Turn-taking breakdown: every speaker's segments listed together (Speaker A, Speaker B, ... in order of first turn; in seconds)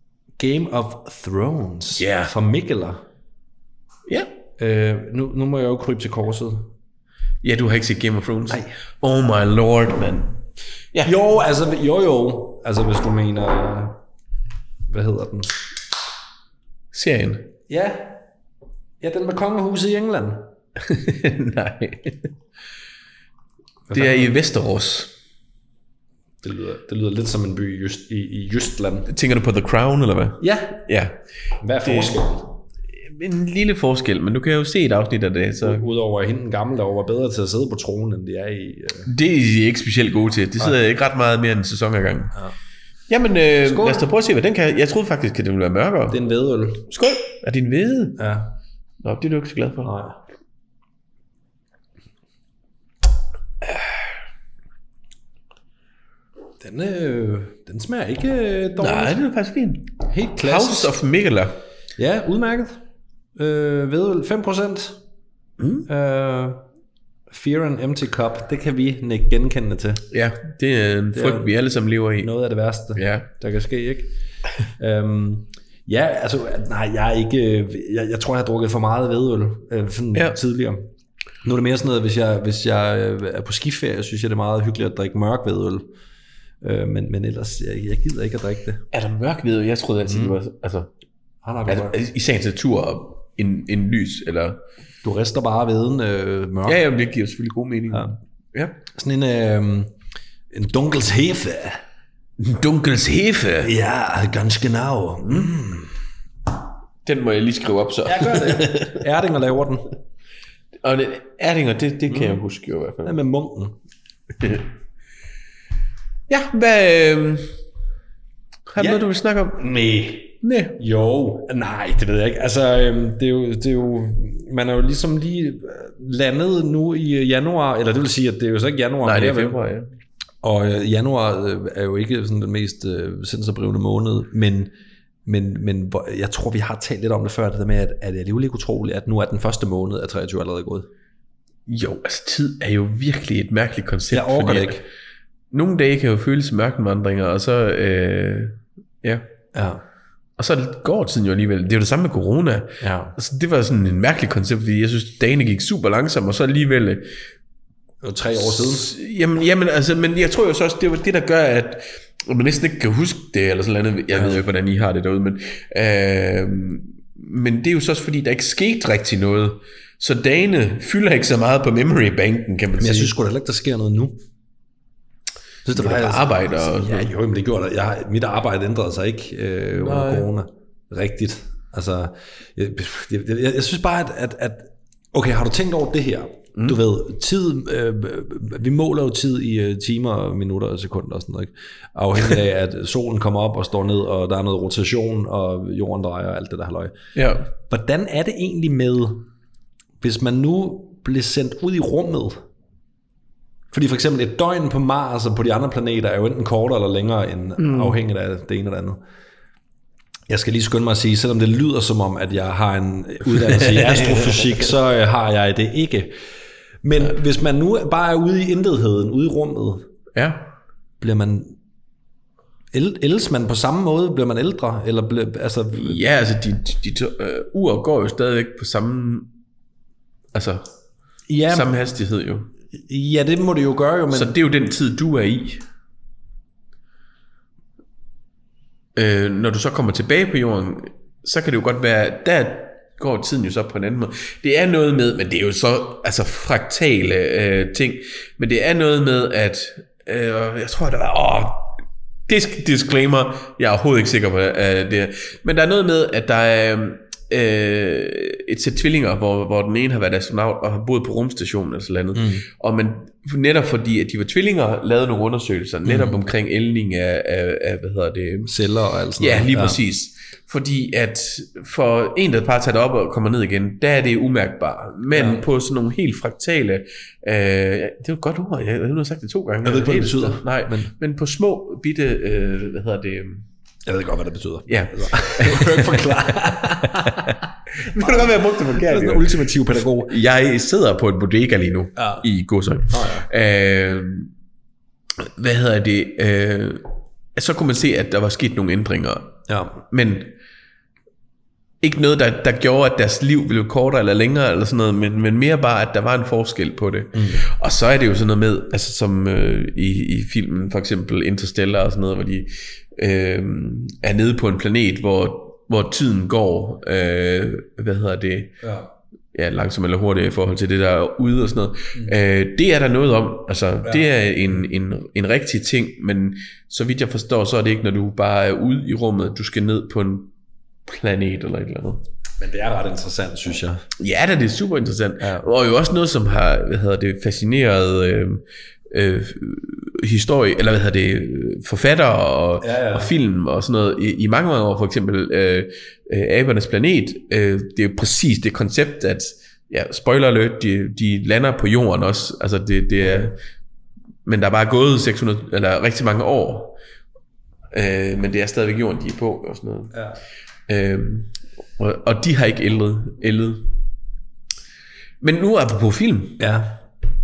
Speaker A: 0.4-3.0, 4.6-6.7, 8.5-8.7, 11.0-14.0, 14.9-15.5, 17.7-18.2, 19.0-20.5, 23.9-24.3, 26.4-29.1, 30.4-30.8, 31.6-32.5, 35.6-39.1, 43.6-44.1, 46.1-46.9, 48.2-48.5, 49.8-50.2, 56.6-59.2, 60.0-60.9, 62.0-62.8, 63.4-65.0, 65.9-66.6, 67.3-70.0, 71.1-71.5, 72.2-74.1, 74.8-80.8, 81.4-85.9, 86.6-88.8, 90.0-90.3, 91.4-92.0, 95.0-96.8, 98.9-99.9, 100.5-101.8, 103.6-105.9, 108.0-109.9, 112.1-112.4, 113.0-113.7, 118.8-129.6, 130.4-134.7, 135.2-140.9, 144.1-144.8, 149.5-149.8, 152.8-153.1, 158.0-158.9, 172.8-174.2, 175.6-196.9, 197.7-199.2, 200.0-202.4, 203.7-209.0, 210.3-216.1, 216.8-219.9, 221.0-221.6, 222.7-226.0, 231.3-231.7, 232.8-234.3, 262.1-262.4, 265.8-266.2, 268.4-269.8, 275.1-275.4, 279.6-280.9, 283.9-287.4, 287.9-290.1, 291.9-292.2, 292.9-293.3, 299.5-299.8, 307.1-307.4, 318.6-318.9, 332.4-333.9, 335.2-335.5, 342.6-343.1, 353.0-353.3, 359.9-360.2, 366.4-366.8
Speaker B: 2.0-2.3, 7.4-10.4, 16.9-17.5, 20.8-22.3, 23.9-25.1, 29.1-31.2, 31.8-32.2, 33.0-35.8, 39.0-42.3, 43.1-46.2, 46.9-48.2, 49.0-49.9, 58.8-61.6, 65.6-65.8, 70.1-72.3, 73.0-73.3, 88.9-90.9, 91.7-94.6, 96.7-98.8, 102.4-103.7, 105.2-105.5, 107.0-109.0, 110.8-113.2, 114.4-114.6, 116.3-117.5, 118.7-119.6, 120.4-120.8, 129.0-129.9, 141.7-144.8, 145.5-149.2, 150.4-157.1, 158.3-173.1, 175.7-177.1, 179.8-180.3, 197.1-197.4, 207.6-207.9, 213.4-214.6, 220.1-220.5, 225.7-229.3, 230.3-230.7, 231.5-232.5, 234.1-235.6, 238.9-251.8, 252.3-268.5, 269.2-283.4, 284.7-287.3, 287.9-289.4, 290.0-294.3, 295.2-299.4, 299.9-300.3, 301.8-318.5, 319.3-330.3, 330.9-332.0, 334.0-353.4, 354.2-356.8, 357.7-359.9, 360.7-363.7, 365.2-366.4